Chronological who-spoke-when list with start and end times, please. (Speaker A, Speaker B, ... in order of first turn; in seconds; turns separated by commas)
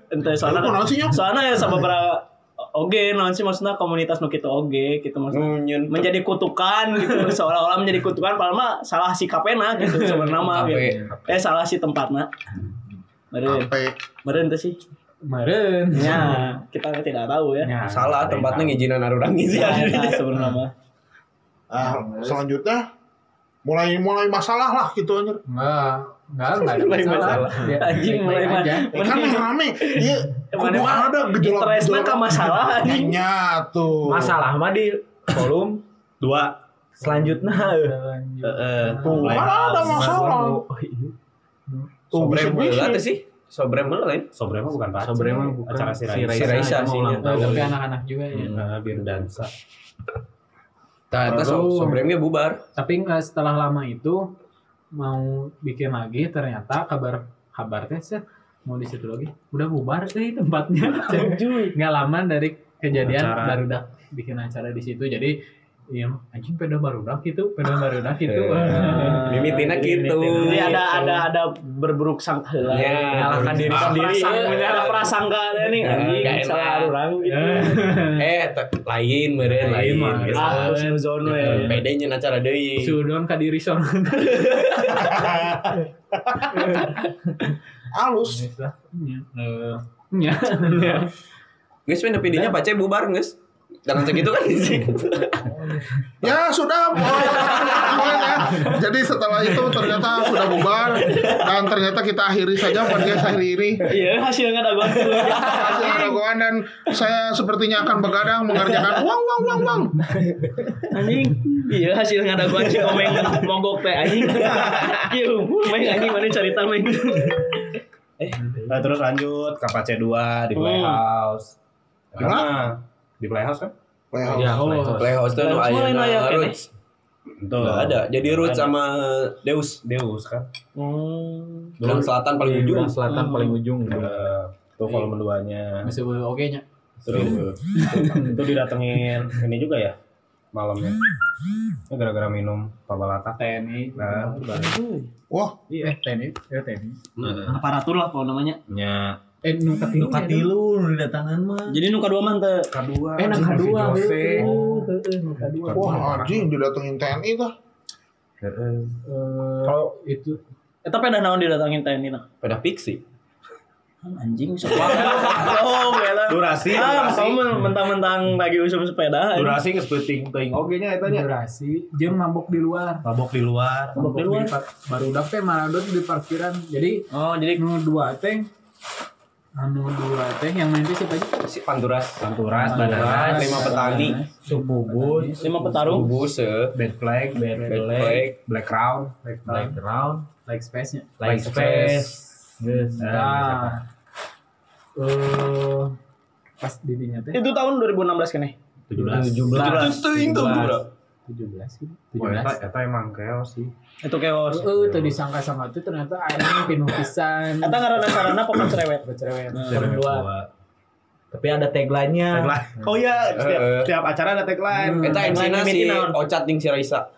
Speaker A: 0.1-12.3, Speaker B: 0.4-1.2, Speaker C: 5.3-6.1, Speaker D: 9.8-11.1, Speaker C: 10.5-11.0, Speaker A: 13.3-13.7, Speaker B: 13.4-13.9, Speaker A: 14.2-14.8, Speaker D: 15.2-16.4, Speaker A: 15.9-17.7, Speaker D: 17.6-18.3, Speaker C: 17.9-20.2, Speaker A: 19.5-20.7, Speaker B: 21.7-22.8, Speaker D: 21.8-22.4, Speaker B: 23.6-25.4, Speaker D: 25.5-29.2, Speaker A: 26.8-33.1, Speaker C: 26.8-27.6, Speaker B: 28.9-34.4, Speaker E: 34.0-35.8, Speaker F: 36.2-36.5, Speaker D: 37.0-39.5, Speaker E: 37.0-37.9, Speaker F: 38.5-40.3, Speaker B: 39.0-40.6, Speaker E: 39.3-41.1, Speaker B: 42.1-43.0, Speaker C: 42.1-44.3, Speaker F: 44.3-46.7, Speaker E: 45.0-47.8, Speaker C: 46.3-47.6, Speaker D: 47.2-48.6, Speaker F: 48.4-49.5, Speaker D: 51.1-52.0, Speaker C: 51.2-52.6, Speaker D: 52.7-54.3, Speaker D: 55.0-65.3, Speaker A: 61.0-61.7, Speaker F: 63.0-63.6, Speaker D: 65.9-71.2, Speaker C: 68.2-70.8, Speaker A: 68.7-69.7, Speaker E: 69.7-70.0, Speaker A: 70.4-78.0, Speaker C: 72.6-75.0, Speaker E: 73.0-75.0, Speaker D: 73.5-75.0, Speaker C: 75.8-76.9, Speaker D: 77.3-78.2, Speaker C: 78.0-80.4, Speaker E: 79.5-80.7, Speaker F: 79.6-80.6, Speaker D: 79.7-81.7, Speaker A: 80.3-81.8, Speaker C: 81.4-83.0, Speaker D: 82.8-85.1, Speaker A: 84.4-84.8, Speaker D: 86.5-87.0, Speaker B: 87.9-88.4, Speaker D: 88.3-91.1, Speaker C: 91.9-95.3, Speaker A: 94.9-95.4, Speaker B: 96.2-103.9, Speaker A: 97.4-98.4, Speaker A: 100.3-101.5, Speaker A: 103.8-106.1, Speaker B: 105.4-110.0, Speaker A: 108.5-109.0, Speaker A: 110.9-118.4, Speaker C: 114.4-114.7, Speaker F: 114.6-115.0, Speaker D: 118.3-118.8, Speaker F: 118.7-121.5, Speaker A: 120.5-121.0, Speaker F: 122.1-123.7, Speaker B: 122.2-122.5, Speaker B: 124.1-124.7, Speaker E: 124.2-125.3, Speaker D: 124.6-125.0, Speaker C: 124.8-126.7, Speaker A: 125.3-126.6, Speaker F: 127.4-128.7, Speaker C: 127.6-129.8, Speaker F: 129.8-130.5, Speaker A: 130.7-131.8, Speaker C: 131.8-133.0, Speaker E: 131.9-134.2, Speaker A: 133.1-133.6, Speaker F: 133.8-135.9, Speaker D: 135.8-136.6, Speaker F: 137.1-139.9, Speaker C: 137.1-138.3, Speaker D: 137.2-138.2, Speaker F: 140.5-141.0, Speaker F: 141.9-144.7, Speaker D: 143.4-144.8, Speaker B: 145.3-145.6, Speaker D: 145.8-147.0, Speaker F: 147.2-147.6, Speaker A: 147.5-148.6, Speaker F: 148.7-149.2, Speaker D: 149.4-150.5, Speaker E: 149.9-151.8, Speaker A: 151.7-152.7, Speaker F: 152.7-154.7, Speaker D: 153.2-156.1, Speaker E: 153.2-154.8, Speaker F: 155.6-156.5, Speaker B: 155.7-157.5, Speaker F: 158.4-158.9, Speaker D: 159.0-160.4, Speaker E: 159.6-159.9, Speaker A: 160.8-162.2, Speaker C: 162.4-163.0, Speaker A: 164.0-169.6, Speaker F: 164.7-165.6, Speaker F: 166.2-167.4, Speaker F: 169.3-171.3, Speaker D: 171.0-173.0, Speaker F: 173.0-174.2, Speaker D: 173.9-177.0, Speaker A: 174.0-174.5, Speaker A: 177.1-177.6, Speaker D: 177.6-178.5, Speaker D: 179.6-181.4, Speaker C: 181.4-182.3, Speaker F: 182.2-183.4, Speaker E: 182.5-186.0, Speaker D: 182.6-185.8, Speaker C: 183.1-184.2, Speaker A: 185.4-186.1, Speaker C: 185.8-186.7, Speaker F: 186.7-189.8, Speaker E: 187.3-188.2, Speaker C: 187.7-188.3, Speaker D: 189.5-189.7, Speaker E: 189.5-190.2, Speaker D: 190.4-191.1, Speaker E: 191.2-193.1, Speaker F: 191.2-192.0, Speaker D: 192.9-193.8, Speaker F: 193.0-193.8, Speaker D: 195.0-195.9, Speaker D: 196.6-197.4, Speaker A: 197.3-198.5, Speaker F: 198.9-199.8, Speaker D: 198.9-200.0, Speaker E: 199.1-200.8, Speaker C: 199.3-200.8, Speaker D: 201.2-202.6, Speaker F: 202.2-203.7, Speaker A: 204.0-204.7, Speaker D: 204.5-207.9, Speaker F: 204.7-205.2, Speaker A: 207.6-209.7, Speaker D: 209.0-210.3, Speaker F: 209.6-210.5, Speaker E: 211.3-212.6, Speaker F: 212.3-215.4, Speaker C: 213.3-213.9, Speaker C: 215.0-217.1, Speaker A: 215.1-216.2